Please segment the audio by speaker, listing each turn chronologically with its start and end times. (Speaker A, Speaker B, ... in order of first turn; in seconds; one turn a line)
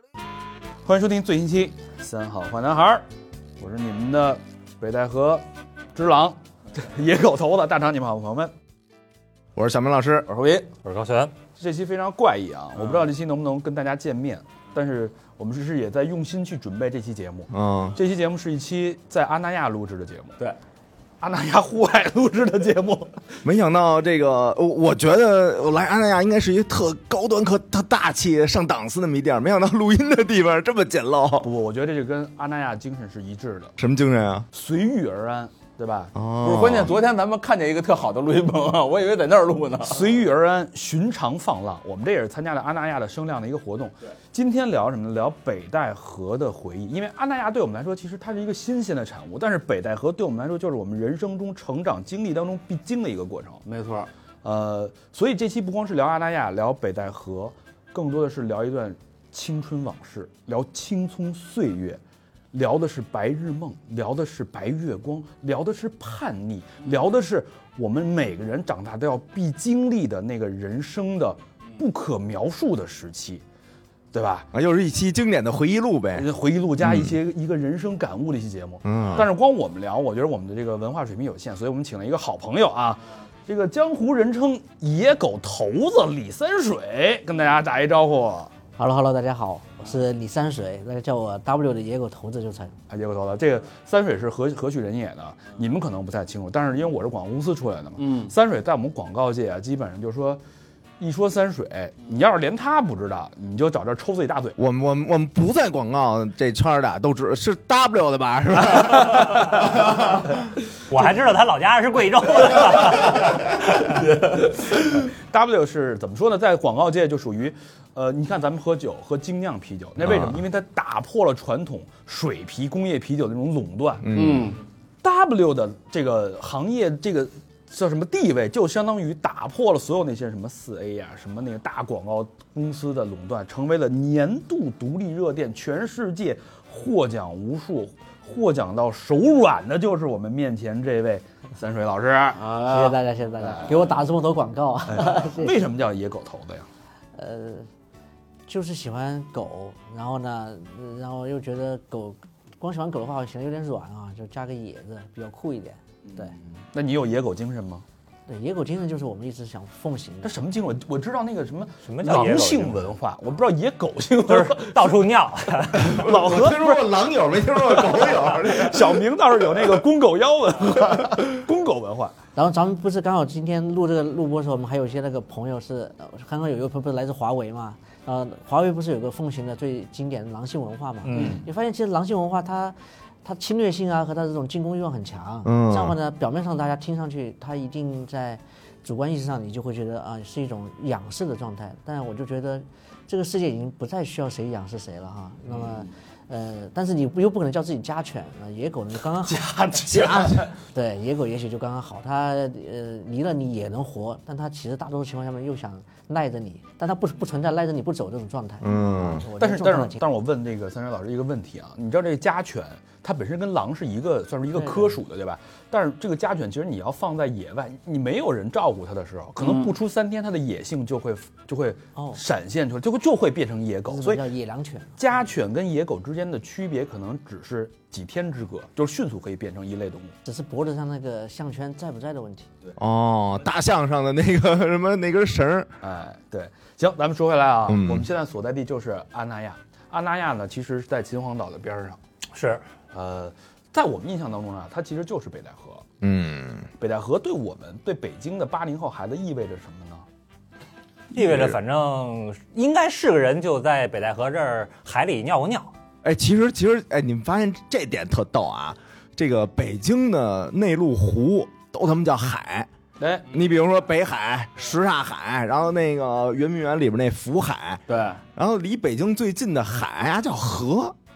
Speaker A: 0.8-3.0
Speaker A: 3.6-8.5
Speaker B: 9.6-10.3
Speaker C: 10.3-10.7
Speaker D: 10.8-11.3
Speaker A: 11.6-20.4
Speaker B: 17.5-17.9
Speaker A: 21.2-23.2
Speaker B: 23.4-31.5
Speaker A: 31.4-33.7
Speaker B: 33.8-34.5
Speaker A: 34.5-36.1
Speaker B: 36.1-37.0
Speaker C: 36.4-40.1
Speaker A: 39.8-53.6
Speaker C: 53.6-54.1
Speaker A: 54.4-62.0
Speaker A: 62.5-73.4
Speaker A: 74.1-74.5
Speaker B: 74.5-76.3
Speaker A: 76.1-88.5
Speaker B: 76.8-77.2
Speaker B: 78.8-79.3
Speaker E: 88.8-92.7
Speaker A: 92.9-100.4
Speaker C: 98.0-98.3
Speaker A: 101.0-104.6
Speaker B: 104.6-110.4
Speaker D: 110.9-113.9
Speaker A: 115.3-124.1
Speaker B: 120.0-120.4
Speaker B: 124.0-124.5
Speaker C: 124.1-124.6
Speaker A: 125.0-142.5
Speaker C: 142.4-142.9
Speaker E: 142.6-145.5
Speaker A: 144.9-146.7
Speaker E: 147.1-147.7
Speaker E: 148.5-156.3
Speaker A: 156.2-157.8
Speaker E: 158.3-160.4
Speaker A: 160.2-164.7
Speaker D: 161.8-162.9
Speaker D: 164.3-166.0
Speaker B: 165.8-169.0
Speaker A: 165.8-166.9
Speaker A: 167.6-172.1
Speaker E: 172.3-199.4
Speaker D: 181.0-181.4
Speaker A: 181.1-181.4
Speaker B: 185.4-185.9
Speaker A: 199.2-200.5
Speaker B: 199.8-200.5
Speaker E: 200.7-210.0
Speaker B: 208.6-209.3
Speaker A: 209.4-224.2
Speaker E: 214.5-215.0
Speaker C: 219.4-219.7
Speaker E: 223.9-225.0
Speaker A: 225.0-230.1
Speaker E: 230.2-232.5
Speaker B: 232.8-235.7
Speaker A: 235.8-242.0
Speaker B: 237.7-238.1
Speaker D: 242.3-242.7
Speaker A: 242.9-245.8
Speaker B: 246.0-246.7
Speaker A: 246.8-250.1
Speaker D: 251.1-255.7
Speaker B: 251.1-251.6
Speaker B: 256.0-262.7
Speaker A: 263.0-263.3
Speaker B: 263.3-267.8
Speaker C: 267.9-268.2
Speaker B: 268.3-270.9